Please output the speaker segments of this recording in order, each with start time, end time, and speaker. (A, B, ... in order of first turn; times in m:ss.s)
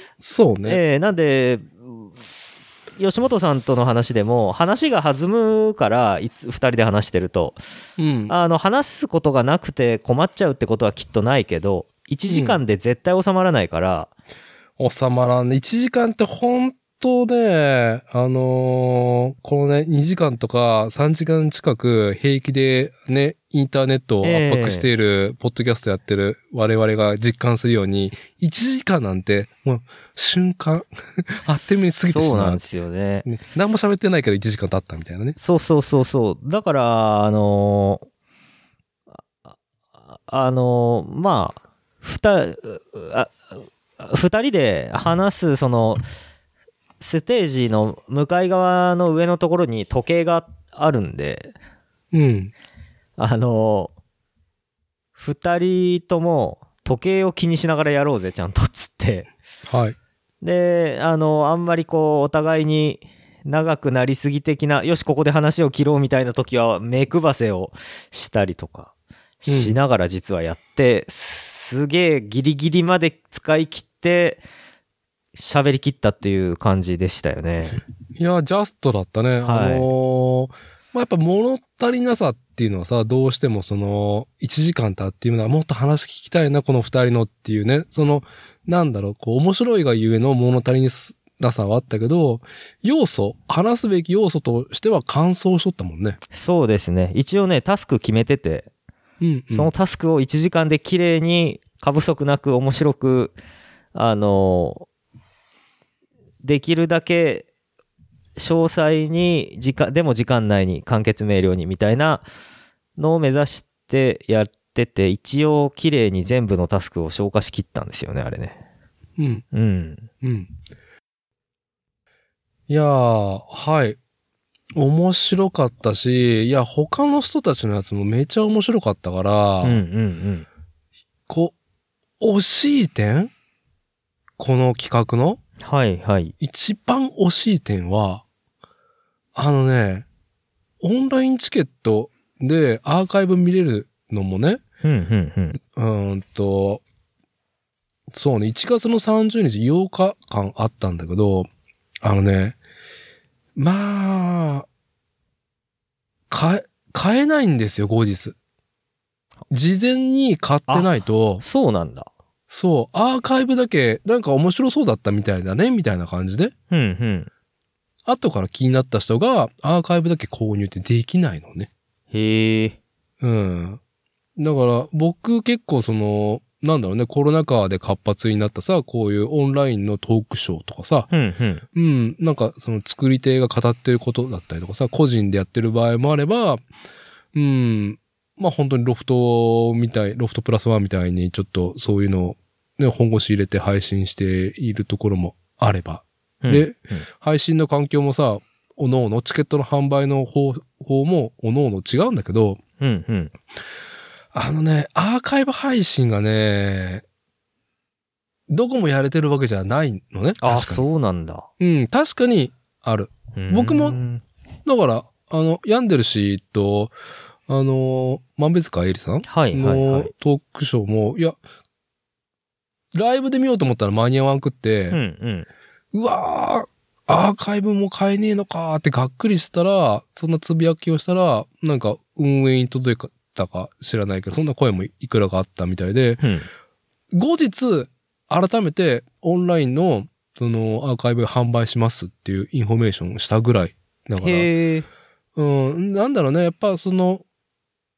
0:00.2-0:00.8 A
0:00.6-0:02.1 B
0:03.0-0:07.6 B
0:08.0-0:08.3 A
0:08.3-0:14.1 B
0:12.3-0:12.6 A
0:14.8-0:32.6 A
0:24.2-0:24.9 B
0:31.5-0:33.3 B
0:33.2-0:35.4 A
0:35.4-0:38.0 B
0:40.3-0:46.0 B
0:47.0-0:51.5 B
0:52.1-0:52.5 A
0:53.2-0:53.9 B
0:55.2-0:59.3 B
0:59.7-1:00.0 A
1:00.4-1:08.9 B
1:09.4-1:14.4 B
1:09.4-1:09.8 A
1:15.4-1:17.8 B
1:18.1-1:36.2 A
1:19.4-1:19.9 B
1:36.3-1:38.7 B
1:39.2-1:39.7 A
1:39.5-1:43.4 B
1:43.9-1:44.9 B
1:46.4-1:47.5 B
1:48.4-1:52.2 B
1:53.0-1:58.6 B
1:59.2-1:59.4 A
1:59.5-2:00.1 B
2:00.2-2:00.5 A
2:02.7-2:04.0 A
2:04.8-2:09.8 A
2:09.6-2:10.5 B
2:11.3-2:11.6 A
2:12.2-2:13.3 A
2:14.4-2:15.4 A
2:15.6-2:16.3 B
2:16.4-2:18.2 A
2:19.4-2:20.1 A
2:20.8-2:24.6 A
2:24.8-2:25.6 B
2:25.8-2:26.8 A
2:28.1-2:31.5 A
2:32.0-2:32.6 A
2:33.6-2:34.6 A
2:36.3-2:38.4 A
2:39.5-2:41.4 A
2:40.7-2:42.1 B
2:42.5-2:46.5 A
2:46.7-2:47.3 B
2:48.1-2:51.7 A
2:52.1-2:52.8 B
2:53.2-2:53.8 A
2:54.4-3:01.1 A
3:01.1-3:01.6 B
3:01.8-3:06.6 A
3:07.3-3:22.6 A
3:16.4-3:17.1 B
3:22.8-3:23.3 B
3:24.3-3:27.0 A
3:28.5-3:30.9 A
3:30.4-3:31.5 B
3:31.6-3:34.0 A
3:33.4-3:34.2 B
3:34.6-3:36.9 A
3:37.5-3:41.4 A
3:39.3-3:40.1 B
3:42.9-3:45.0 A
3:44.9-3:45.5 B
3:45.9-3:56.2 A
3:56.2-3:56.5 B
3:57.1-4:04.5 A
4:04.2-4:04.9 B
4:05.4-4:07.2 A